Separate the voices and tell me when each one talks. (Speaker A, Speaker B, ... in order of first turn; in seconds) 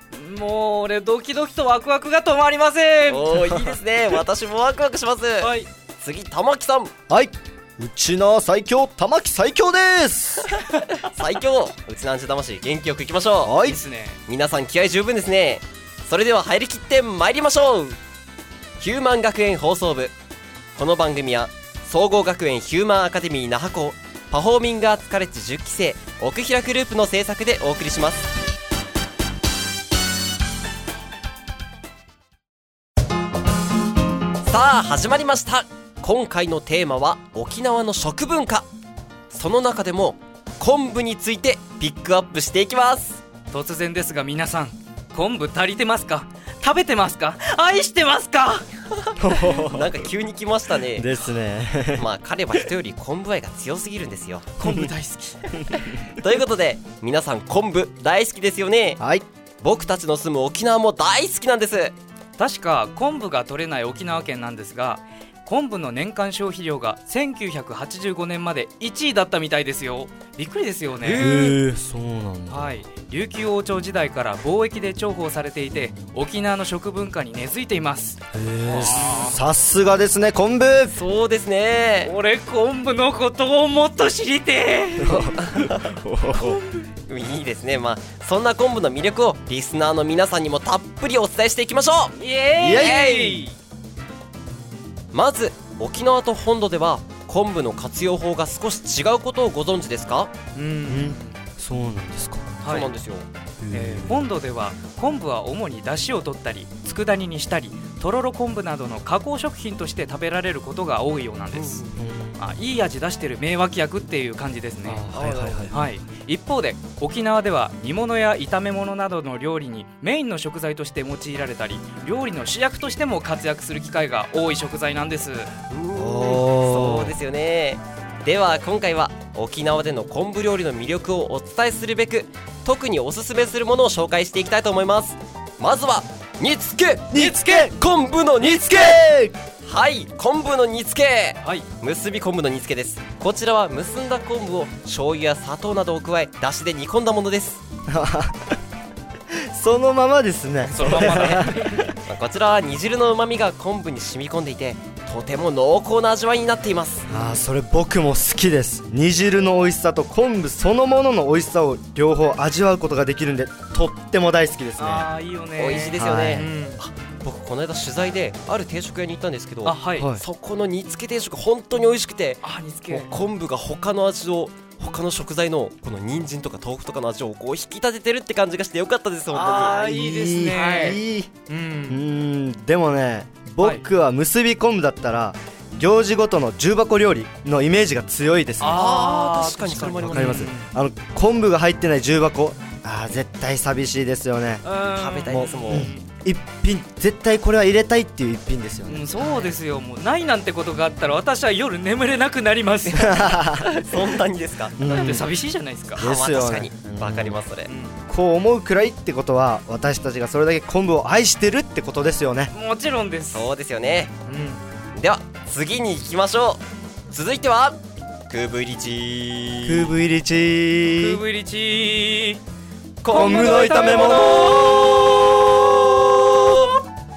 Speaker A: 0.1-3.5, 5.4-5.7, 13.6-14.2, 43.5-48.7, 54.6-55.9, 62.4-71.6, 72.5-79.4, 82.0-85.4, 86.3-86.9, 92.2-93.5, 100.5-101.3, 102.6-102.9, 103.7-111.8, 112.4-115.0, 115.7-125.5, 150.6-151.9, 157.1-157.4, 164.8-166.8, 169.6-170.1, 172.4-173.2, 179.3-182.0, 188.6-190.7, 194.6-196.0, 198.8-203.3, 204.8-206.0, 207.7-208.0, 212.5-213.5, 214.2-214.6, 221.0-222.4, 223.1-225.1
Speaker B: 3.1-6.9, 11.0-13.6, 14.3-18.0, 18.8-20.1, 20.7-28.3, 34.4-38.7, 39.3-43.2, 48.9-51.1, 52.0-54.5, 56.1-59.0, 59.6-61.9, 80.9-82.1, 85.4-85.8, 87.1-93.3, 95.1-100.3, 102.6-103.3, 111.5-112.0, 115.1-115.8, 125.7-139.1, 139.6-147.6, 150.9-151.4, 152.0-157.1, 165.6-179.8, 180.6-181.0, 188.6-190.5, 194.9-195.9, 199.2-199.5, 203.6-205.1, 205.9-207.7, 213.3-214.1, 214.9-219.9, 223.2-226.8
Speaker C: 7.1-10.5, 13.4-13.8, 49.2-50.0, 50.9-52.0, 54.6-54.9, 59.0-59.2, 71.0-72.7, 78.3-81.0, 85.0-86.6, 92.6-93.4, 100.9-102.6, 103.6-104.3, 112.0-112.4, 114.8-115.8, 125.9-127.2, 137.1-137.8, 138.4-139.3, 147.9-148.6, 149.5-152.0, 157.1-165.1, 165.9-166.5, 170.0-170.2, 179.6-181.3, 181.9-188.8, 190.1-194.6, 195.3-199.1, 202.9-203.7, 204.8-205.3, 205.9-207.4, 208.1-212.5, 219.7-221.2, 223.0-224.6